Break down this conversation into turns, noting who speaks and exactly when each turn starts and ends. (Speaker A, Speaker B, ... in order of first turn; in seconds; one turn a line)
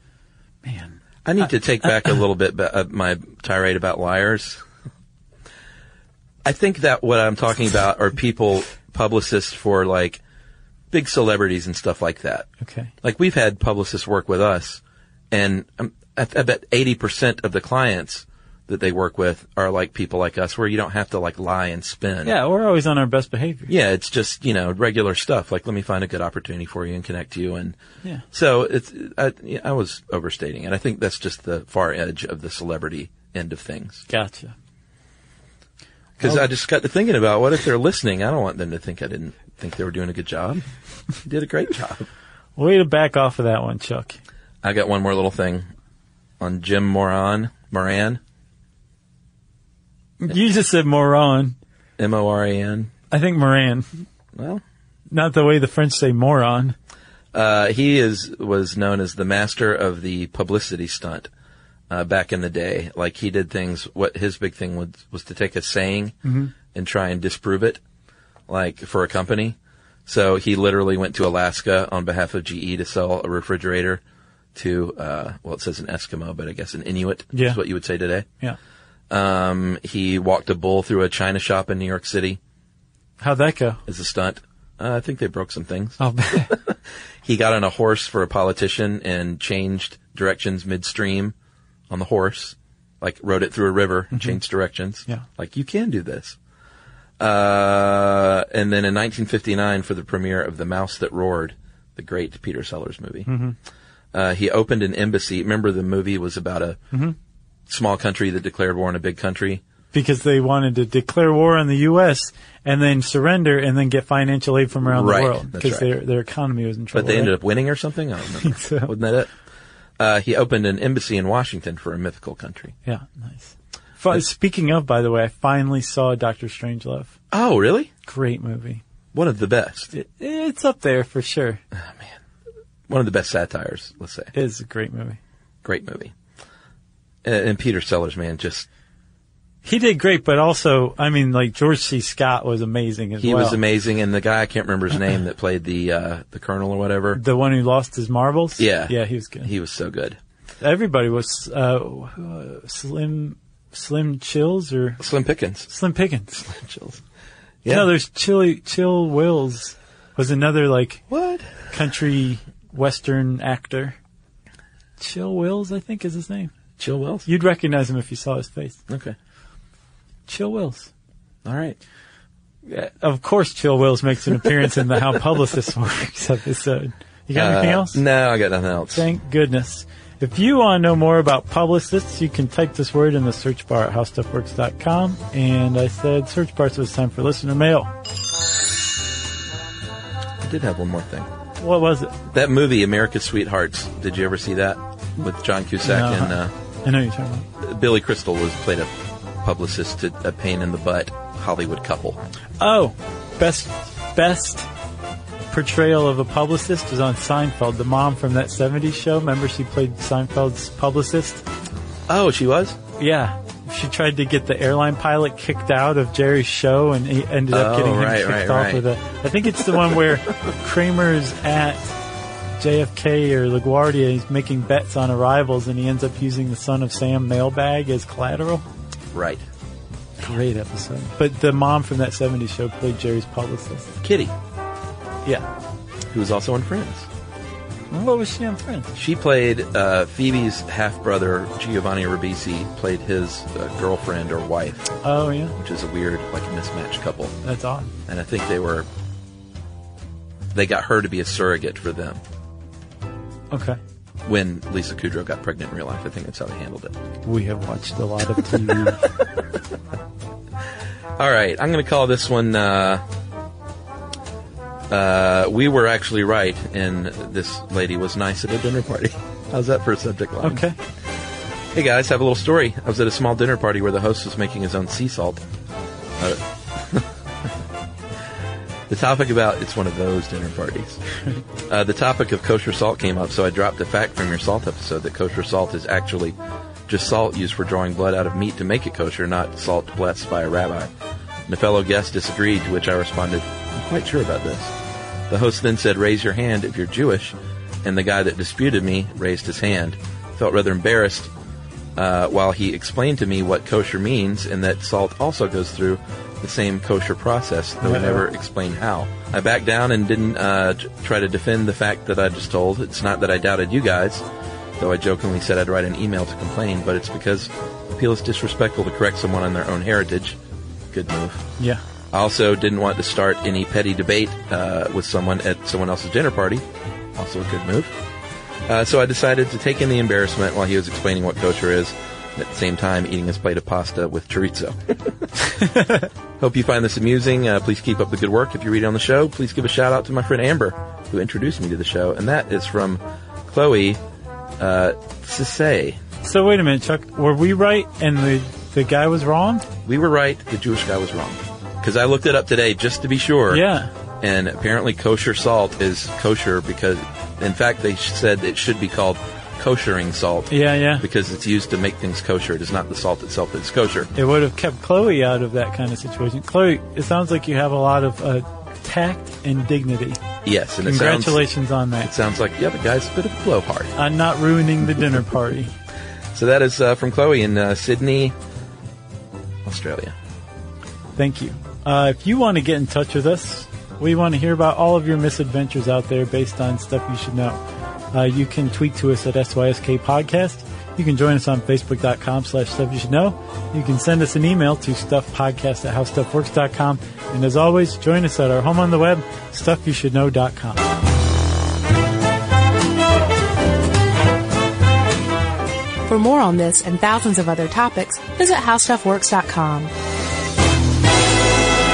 Speaker A: 0.6-1.5
Speaker B: 1.2-4.6
Speaker B: 6.4-10.2
Speaker B: 10.9-12.5
Speaker A: 12.6-12.9
Speaker B: 13.0-22.3
Speaker A: 22.2-23.7
Speaker B: 23.7-27.8
Speaker B: 28.3-34.0
Speaker A: 34.1-34.5
Speaker B: 36.2-40.6
Speaker B: 41.2-42.1
Speaker A: 42.6-44.2
Speaker B: 44.6-45.7
Speaker B: 46.4-48.2
Speaker A: 50.2-51.5
Speaker B: 52.0-52.9
Speaker A: 53.1-53.9
Speaker B: 54.4-54.6
Speaker A: 55.1-56.8
Speaker B: 57.3-61.3
Speaker B: 61.9-66.1
Speaker A: 66.2-66.5
Speaker B: 66.7-67.8
Speaker B: 68.5-69.5
Speaker B: 70.1-74.0
Speaker B: 74.5-78.3
Speaker A: 77.3-77.6
Speaker B: 79.1-82.4
Speaker A: 83.2-83.8
Speaker B: 83.9-86.0
Speaker A: 86.0-86.5
Speaker B: 86.5-91.3
Speaker B: 91.9-96.3
Speaker A: 94.1-94.4
Speaker B: 97.2-103.3
Speaker A: 103.3-103.5
Speaker B: 104.1-106.8
Speaker B: 107.7-109.6
Speaker A: 109.9-117.3
Speaker B: 114.8-115.9
Speaker B: 116.9-119.3
Speaker A: 118.4-118.9
Speaker B: 120.0-122.7
Speaker A: 122.8-127.1
Speaker B: 127.3-127.9
Speaker A: 128.1-128.8
Speaker B: 129.1-129.9
Speaker A: 129.9-131.6
Speaker B: 131.8-132.1
Speaker B: 132.9-134.3
Speaker A: 134.3-135.2
Speaker B: 135.6-136.1
Speaker B: 137.2-138.7
Speaker A: 139.6-143.6
Speaker B: 143.2-147.2
Speaker A: 147.1-149.5
Speaker B: 148.6-150.2
Speaker A: 150.6-155.0
Speaker B: 155.0-155.7
Speaker A: 155.7-156.4
Speaker B: 156.4-157.0
Speaker A: 157.7-161.0
Speaker B: 161.1-161.5
Speaker A: 161.7-163.9
Speaker A: 165.0-166.5
Speaker B: 166.8-167.3
Speaker A: 167.2-168.8
Speaker B: 168.9-169.1
Speaker A: 170.3-170.9
Speaker B: 171.4-171.8
Speaker A: 172.7-178.0
Speaker B: 177.3-179.0
Speaker A: 178.9-187.9
Speaker B: 190.4-191.3
Speaker A: 191.6-192.1
Speaker B: 192.3-196.5
Speaker A: 195.8-197.4
Speaker B: 197.6-198.9
Speaker B: 199.4-202.2
Speaker A: 202.6-204.7
Speaker A: 205.5-211.4
Speaker B: 212.1-212.8
Speaker A: 213.0-221.9
Speaker B: 217.5-218.8
Speaker A: 222.6-228.6
Speaker B: 229.1-229.4
Speaker A: 230.2-233.9
Speaker B: 234.0-234.3
Speaker B: 236.1-237.1
Speaker A: 237.9-238.9
Speaker B: 238.9-244.9
Speaker A: 245.0-245.5
Speaker B: 245.6-247.4
Speaker A: 247.4-247.9
Speaker B: 248.1-248.9
Speaker B: 250.5-252.2
Speaker A: 253.5-253.8
Speaker B: 254.2-256.9
Speaker A: 257.2-259.0
Speaker B: 261.2-263.0
Speaker B: 264.9-270.6
Speaker A: 270.4-270.8
Speaker B: 271.7-275.4
Speaker B: 276.2-277.1
Speaker B: 278.9-281.0
Speaker B: 281.7-286.4
Speaker B: 286.9-290.9
Speaker B: 291.5-294.7
Speaker B: 295.3-301.3
Speaker B: 301.9-314.2
Speaker A: 307.8-308.2
Speaker B: 314.8-320.4
Speaker B: 320.9-321.5
Speaker B: 322.1-326.6
Speaker B: 327.2-327.9
Speaker B: 328.7-335.1
Speaker A: 335.6-336.1
Speaker B: 336.4-344.0
Speaker B: 344.6-346.0
Speaker A: 346.2-349.6
Speaker B: 349.9-353.6
Speaker A: 353.5-353.9
Speaker B: 354.2-364.1
Speaker A: 360.5-361.0
Speaker A: 364.1-370.2
Speaker B: 370.4-371.4
Speaker A: 370.8-372.1
Speaker B: 372.0-373.9
Speaker A: 373.9-375.7
Speaker B: 376.3-378.3
Speaker B: 379.6-380.1
Speaker A: 381.1-387.6
Speaker A: 388.1-400.9
Speaker C: 406.1-409.9